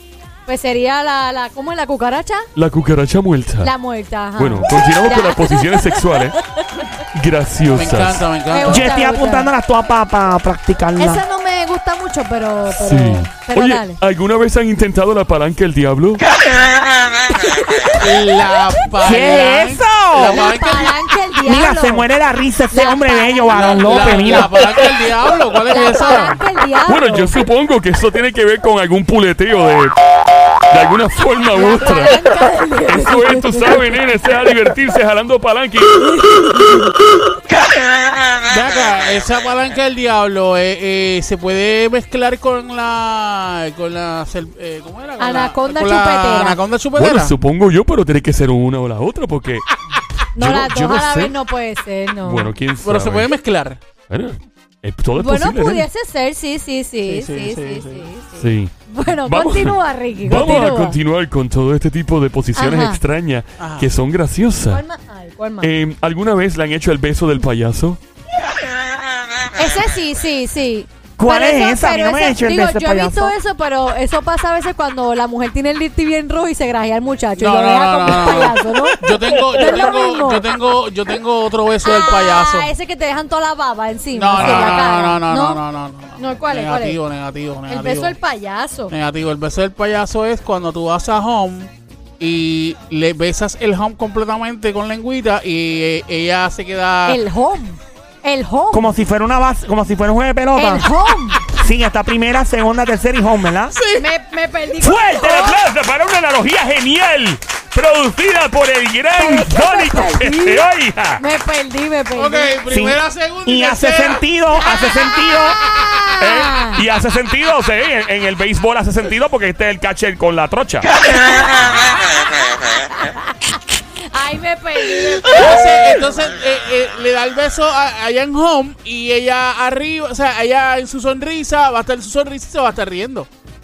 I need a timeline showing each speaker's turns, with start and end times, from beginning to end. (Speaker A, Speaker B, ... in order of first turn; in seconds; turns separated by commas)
Speaker A: 0.5-2.5, Speaker B: 2.5-3.7, Speaker A: 3.6-6.8, Speaker B: 4.4-6.4, Speaker B: 7.1-8.3, Speaker C: 7.8-8.9, Speaker A: 8.5-9.5, Speaker D: 8.7-11.2, Speaker A: 11.0-14.0, Speaker B: 12.7-16.2, Speaker A: 17.3-18.2, Speaker C: 18.0-21.0, Speaker D: 19.0-20.5, Speaker A: 20.3-22.1, Speaker D: 21.4-24.5, Speaker A: 22.7-24.5, Speaker C: 23.5-26.4, Speaker A: 25.7-27.3, Speaker B: 26.9-29.9, Speaker B: 30.7-32.2, Speaker A: 31.5-33.9, Speaker B: 32.9-36.1, Speaker A: 36.1-36.9, Speaker C: 38.5-47.3, Speaker A: 45.2-46.6, Speaker B: 47.0-49.7, Speaker A: 50.4-52.5, Speaker B: 50.4-51.4, Speaker B: 52.2-53.3, Speaker C: 52.8-53.8, Speaker B: 54.1-55.9, Speaker A: 55.2-61.0, Speaker C: 57.0-58.1, Speaker B: 58.4-64.8, Speaker A: 62.6-63.0, Speaker C: 63.6-63.9, Speaker A: 64.7-65.7, Speaker B: 65.6-68.0, Speaker A: 69.6-80.5, Speaker D: 71.2-73.3, Speaker C: 77.4-82.7, Speaker A: 81.8-85.6, Speaker C: 84.1-88.2, Speaker A: 86.2-87.0, Speaker A: 87.7-88.9, Speaker C: 88.9-97.2, Speaker A: 97.1-98.9, Speaker D: 98.7-100.9, Speaker A: 100.5-101.5, Speaker D: 101.5-103.8, Speaker C: 103.7-104.1, Speaker A: 103.9-105.6, Speaker E: 104.8-111.2, Speaker A: 109.2-110.7, Speaker A: 111.2-112.6, Speaker C: 112.1-114.2, Speaker D: 112.7-115.6, Speaker A: 115.5-116.8, Speaker E: 116.2-120.9, Speaker A: 121.2-125.8, Speaker C: 125.2-133.3